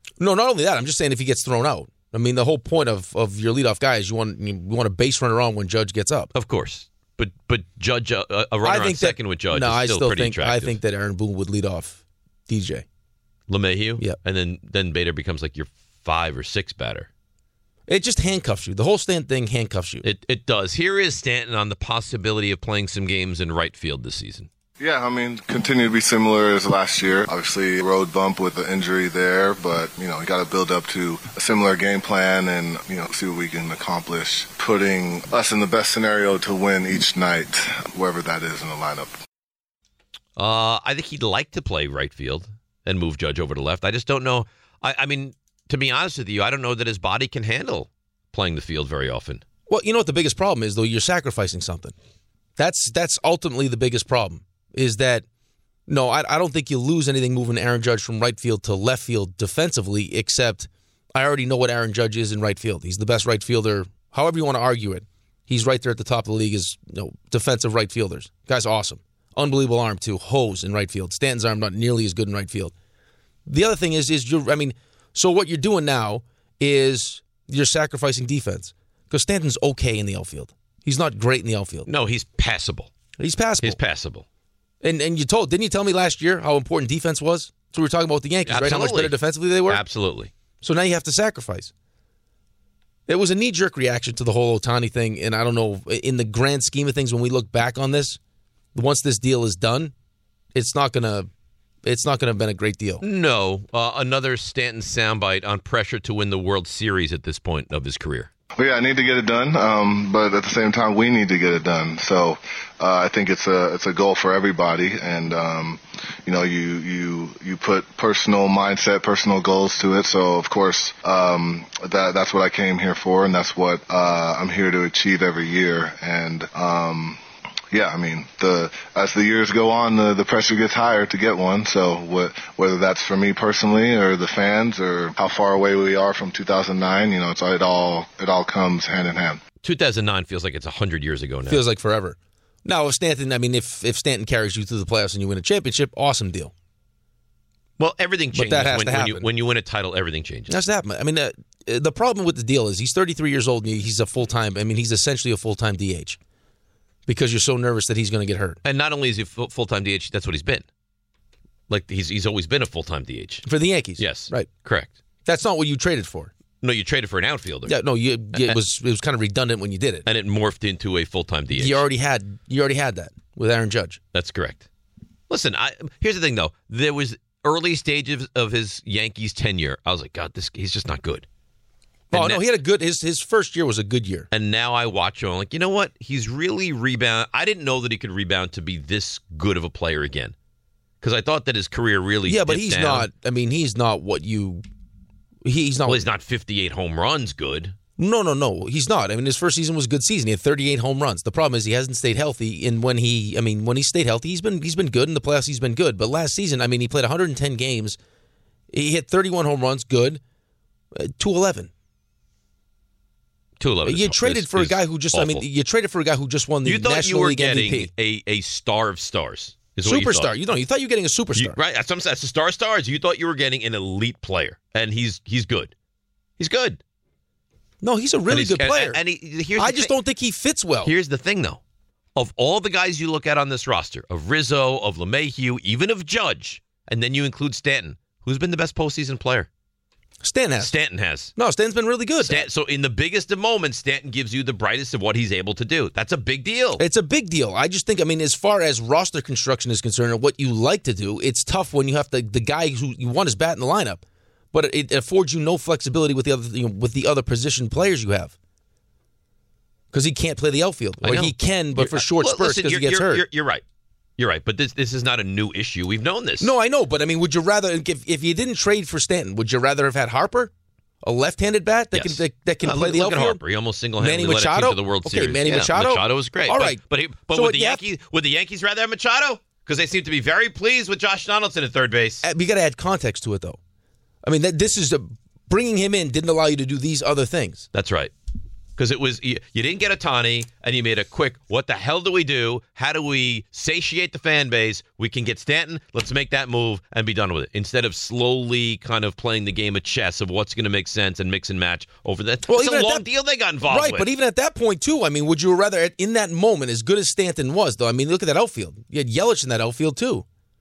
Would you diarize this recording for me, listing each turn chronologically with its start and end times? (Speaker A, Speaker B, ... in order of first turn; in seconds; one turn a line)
Speaker A: 0.2-6.3
Speaker B: 6.3-10.8
Speaker A: 8.6-12.8
Speaker B: 13.5-17.1
Speaker A: 17.9-20.1
Speaker B: 20.0-24.5
Speaker C: 24.8-39.2
Speaker B: 40.4-49.4
Speaker A: 49.7-51.9
Speaker A: 52.6-55.2
Speaker A: 55.9-72.7
Speaker A: 73.5-81.9
Speaker B: 81.9-82.9
Speaker A: 83.2-83.8
Speaker B: 83.6-84.2
Speaker A: 84.8-89.8
Speaker B: 88.5-90.3
Speaker A: 90.6-91.7
Speaker A: 93.1-98.2
Speaker A: 98.8-99.9
Speaker A: 100.5-101.3
Speaker A: 101.8-103.0
Speaker B: 103.0-108.3
Speaker C: 108.6-127.2
Speaker C: 127.7-139.4
Speaker B: 139.6-141.6
Speaker A: 141.5-146.5
Speaker B: 147.8-150.6
Speaker A: 148.3-149.3
Speaker A: 150.5-156.2
Speaker A: 157.1-158.6
Speaker B: 158.6-160.7
Speaker B: 161.7-163.5
Speaker A: 163.4-164.5
Speaker B: 164.0-164.9
Speaker A: 165.2-166.3
Speaker B: 166.6-167.7
Speaker A: 167.7-170.1
Speaker B: 170.1-171.8
Speaker A: 171.6-174.0
Speaker B: 174.1-174.7
Speaker B: 175.3-181.3
Speaker B: 182.1-182.4
Speaker A: 182.1-184.3
Speaker B: 184.3-190.3
Speaker B: 191.0-193.1
Speaker A: 192.3-194.6
Speaker A: 195.4-196.0
Speaker B: 195.9-197.8
Speaker A: 198.0-208.0
Speaker A: 208.7-210.2
Speaker A: 210.9-211.7
Speaker B: 213.6-215.4
Speaker A: 213.9-217.9
Speaker B: 216.7-220.3
Speaker A: 219.8-221.6
Speaker B: 221.4-225.7
Speaker B: 226.4-226.8
Speaker A: 227.8-229.0
Speaker B: 228.3-229.9
Speaker A: 229.6-230.9
Speaker B: 230.8-231.6
Speaker B: 232.2-239.5
Speaker A: 240.2-240.7
Speaker B: 240.6-241.3
Speaker A: 241.4-242.5
Speaker B: 242.2-246.8
Speaker A: 246.8-254.0
Speaker A: 254.5-258.4
Speaker A: 259.9-263.2
Speaker B: 261.0-263.6
Speaker B: 264.2-266.5
Speaker A: 266.4-270.5
Speaker A: 271.0-273.4
Speaker B: 271.9-282.2
Speaker A: 274.0-277.8
Speaker A: 282.2-283.6
Speaker A: 284.2-287.7
Speaker B: 287.7-288.1
Speaker B: 288.8-304.1
Speaker A: 302.5-303.0
Speaker A: 303.7-310.2